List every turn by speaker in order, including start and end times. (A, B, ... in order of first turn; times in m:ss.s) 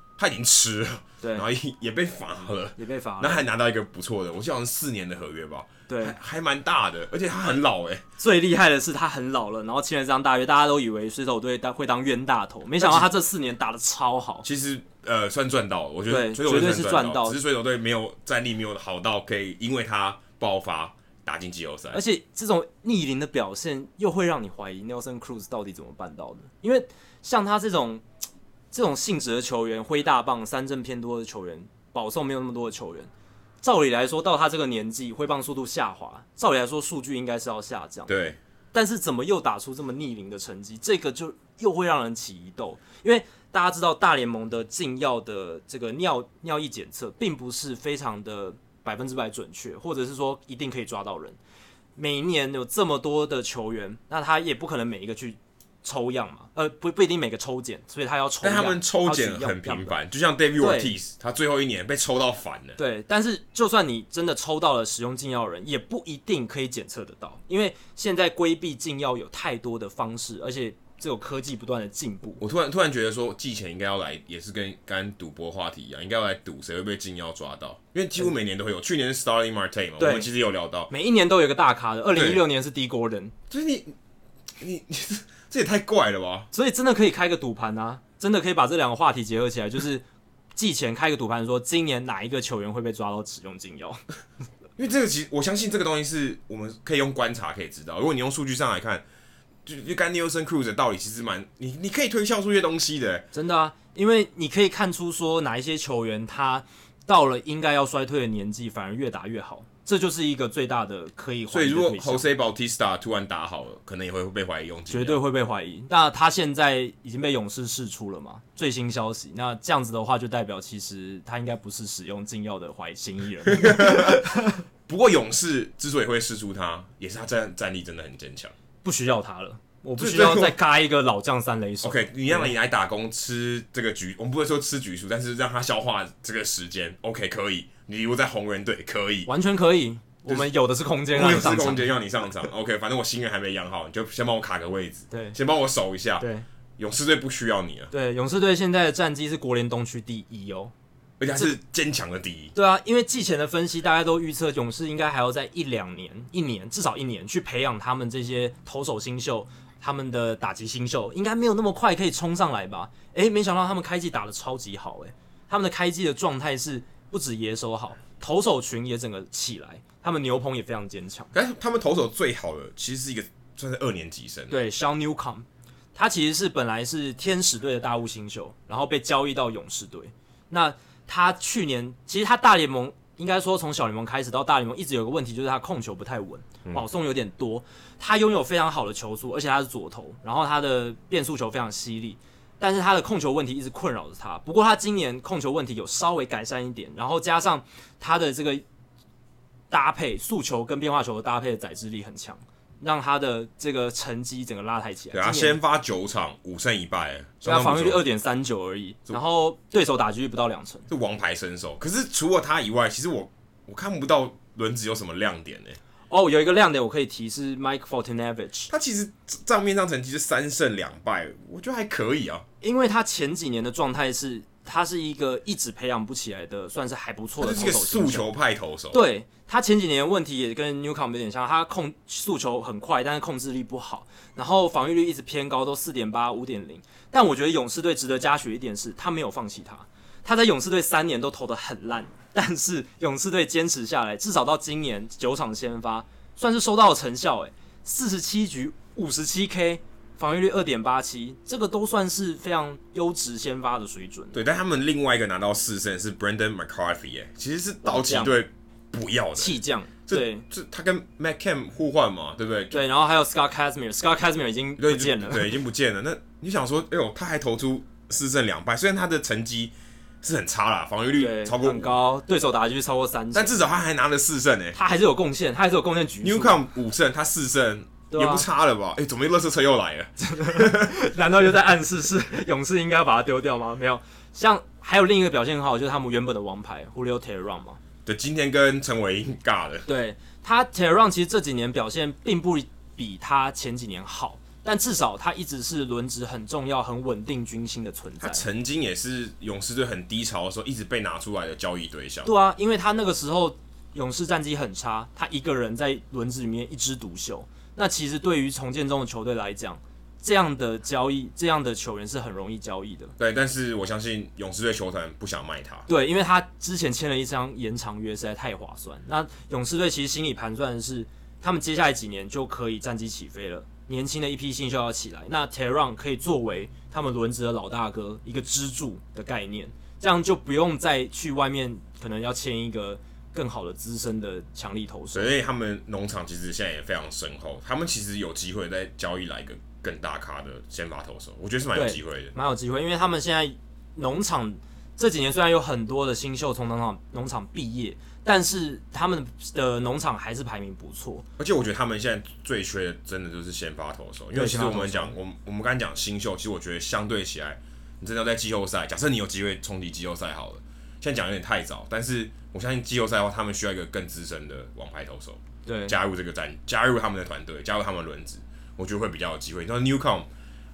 0:00.2-0:08.0 A
0:02.8-0:03.5 B
0:05.9-0:06.2 B
0:08.2-0:14.5 B
0:12.8-0:13.1 A
0:14.4-0:22.0 A
0:16.1-0:17.4 B
0:21.9-0:28.0 B
0:28.7-0:33.1 B
0:33.6-0:38.1 B
0:38.1-0:38.4 A
0:38.7-0:51.4 B
0:52.0-1:00.0 B
0:58.4-1:02.8 A
1:00.6-1:00.9 B
1:02.8-1:12.4 B
1:12.4-1:20.9 A
1:20.0-1:20.3 B
1:20.9-1:23.3 B
1:22.2-1:22.4 A
1:23.5-1:23.9 A
1:24.6-1:26.5 A
1:26.5-1:30.0 B
1:30.6-1:34.0 B
1:34.8-1:39.0 A
1:39.6-1:43.3 A
1:43.3-1:52.3 B
1:51.5-1:55.2 A
1:54.9-2:04.6 B
2:03.5-2:08.5 A
2:08.8-2:12.5 B
2:10.0-2:10.6 A
2:11.8-2:19.3 A
2:19.3-2:21.9 B
2:21.1-2:26.3 A
2:25.1-2:25.4 B
2:26.2-2:26.5 B
2:26.8-2:27.9 A
2:27.9-2:30.7 B
2:31.2-2:32.5 A
2:32.6-2:51.3 B
2:51.3-2:54.6 A
2:54.5-3:18.6 B
3:19.7-3:25.6 B
3:25.1-3:28.0 A
3:27.4-3:30.9 B
3:30.9-3:35.8 A
3:36.1-3:38.7 B
3:38.7-3:42.5 A
3:42.6-3:48.3 B
3:47.4-3:49.0 A
3:48.9-4:14.4 B
4:14.3-4:22.8 A
4:17.8-4:18.3 B
4:19.4-4:20.4 B
4:22.7-4:25.6 B
4:24.8-4:32.0 A
4:31.2-4:33.6 B
4:33.3-4:34.8 A
4:34.8-4:36.6 B
4:36.2-4:40.9 A
4:38.1-4:38.5 B
4:40.2-4:47.8 B
4:48.0-4:49.9 A
4:49.9-4:58.4 B
4:58.2-5:02.3 A
5:02.2-5:13.1 B
5:13.2-5:15.9 A
5:15.9-5:35.3 B
5:35.1-5:42.3 A
5:41.7-5:51.3 B
5:51.4-6:10.3 A
5:54.3-5:55.1 B
6:05.7-6:06.0 B